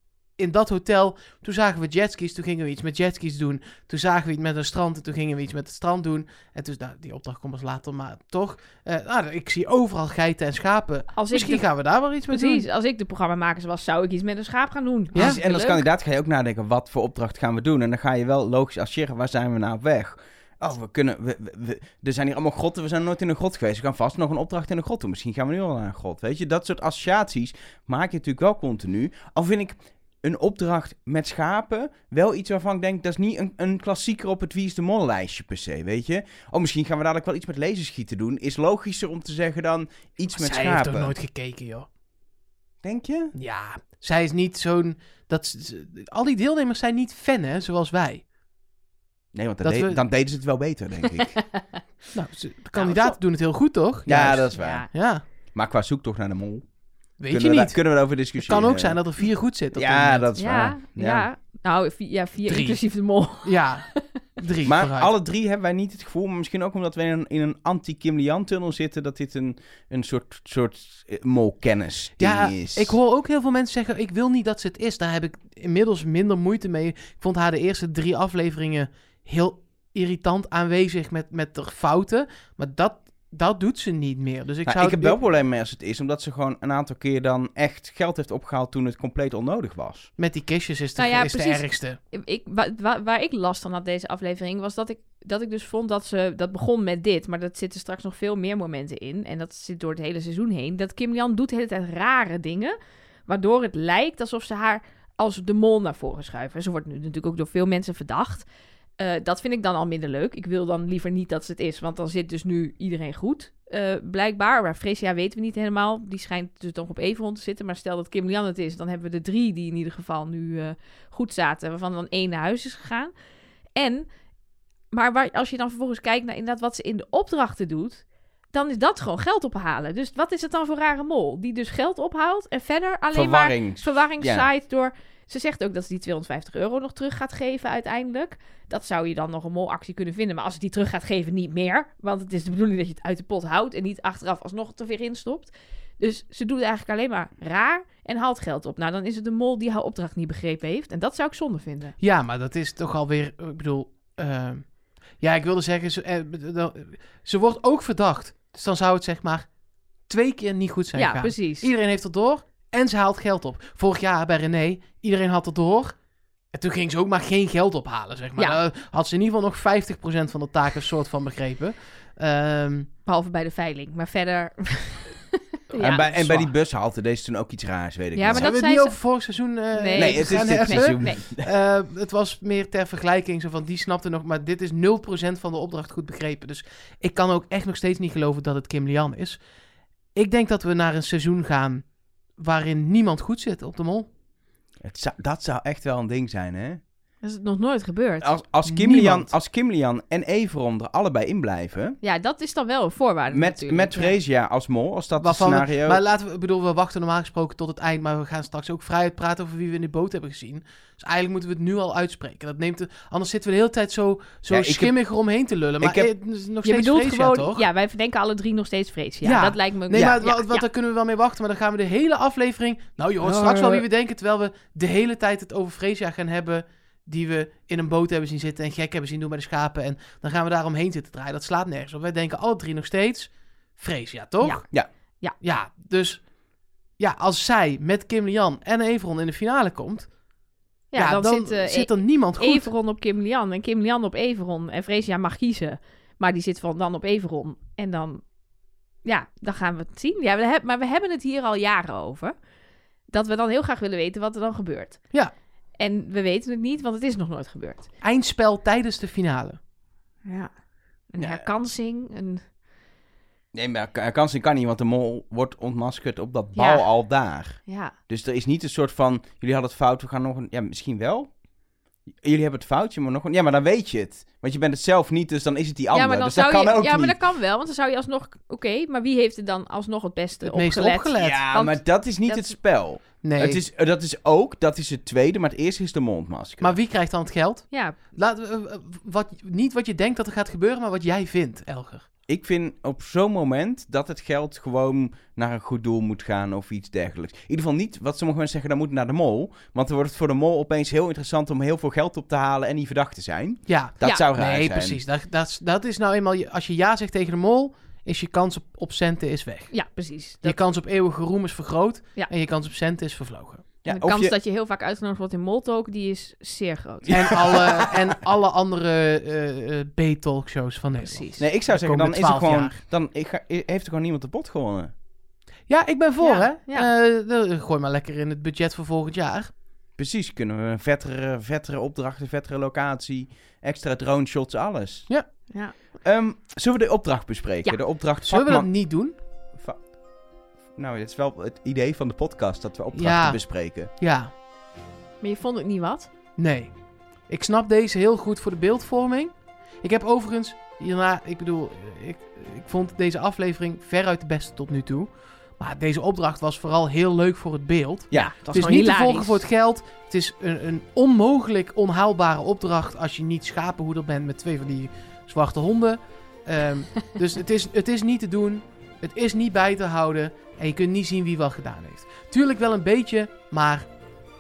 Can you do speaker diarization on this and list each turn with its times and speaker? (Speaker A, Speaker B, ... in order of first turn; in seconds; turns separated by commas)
Speaker A: 0.4-12.7, Speaker B: 11.1-11.7, Speaker B: 12.3-15.9, Speaker A: 15.1-15.4, Speaker C: 15.2-41.1, Speaker A: 40.4-41.9, Speaker C: 42.8-43.3, Speaker A: 43.4-48.2, Speaker C: 49.3-51.4, Speaker A: 49.6-50.0, Speaker B: 51.1-51.8, Speaker A: 52.1-55.2, Speaker C: 52.8-53.1, Speaker C: 54.1-54.9, Speaker B: 54.6-54.9, Speaker C: 55.5-56.6, Speaker A: 57.2-57.8, Speaker C: 57.3-59.0, Speaker A: 58.4-60.3, Speaker C: 59.7-61.2, Speaker B: 60.4-64.0, Speaker A: 62.5-62.8, Speaker A: 63.4-65.1, Speaker C: 64.6-73.0, Speaker A: 72.2-85.2, Speaker C: 84.7-90.1, Speaker A: 90.2-92.0, Speaker B: 91.0-102.8, Speaker B: 103.3-108.5, Speaker B: 109.0-123.1, Speaker B: 123.8-124.1, Speaker B: 124.9-152.0, Speaker C: 133.1-134.5, Speaker A: 152.0-154.7, Speaker A: 155.2-159.5, Speaker A: 160.1-166.0, Speaker B: 160.9-161.7, Speaker A: 166.5-172.9, Speaker B: 173.1-176.1, Speaker C: 175.8-178.5, Speaker A: 176.0-176.5, Speaker B: 178.2-179.0, Speaker A: 178.3-189.4, Speaker B: 179.7-181.2, Speaker C: 179.9-181.5, Speaker A: 190.1-194.1, Speaker C: 194.8-196.8, Speaker B: 197.2-198.3, Speaker C: 198.2-202.0, Speaker A: 198.6-199.3, Speaker B: 202.0-204.1, Speaker C: 203.3-206.0, Speaker A: 205.2-217.6, Speaker C: 214.5-214.9, Speaker C: 215.8-216.1, Speaker B: 216.6-220.7, Speaker A: 219.2-234.7, Speaker C: 223.2-223.8, Speaker A: 235.4-236.2, Speaker A: 237.0-240.1, Speaker B: 240.9-248.2, Speaker A: 241.0-242.7, Speaker B: 249.0-252.3, Speaker B: 253.1-255.0, Speaker B: 255.8-257.9, Speaker A: 258.0-259.6, Speaker B: 260.2-260.5, Speaker B: 261.1-262.4, Speaker C: 261.2-261.5, Speaker C: 263.5-271.3, Speaker B: 266.6-266.9, Speaker B: 267.6-267.9, Speaker C: 272.2-277.2, Speaker B: 275.9-282.5, Speaker A: 280.4-281.4, Speaker C: 281.2-286.8, Speaker A: 283.2-283.6, Speaker A: 286.6-292.1, Speaker B: 287.7-288.0, Speaker C: 292.3-305.0, Speaker A: 303.7-309.7, Speaker B: 309.7-310.6, Speaker A: 310.4-313.6, Speaker C: 313.8-314.3, Speaker B: 313.9-317.6, Speaker C: 317.1-317.9, Speaker A: 317.1-322.8, Speaker B: 321.0-321.4, Speaker C: 321.4-324.9, Speaker A: 325.7-329.5, Speaker B: 326.2-326.9, Speaker C: 330.0-335.1, Speaker B: 335.5-335.8, Speaker C: 336.0-338.7, Speaker A: 338.3-339.1, Speaker C: 339.6-339.9, Speaker C: 340.8-343.9, Speaker A: 342.9-344.3, Speaker B: 345.2-346.1, Speaker A: 346.4-346.7, Speaker A: 347.3-373.9, Speaker B: 358.1-359.4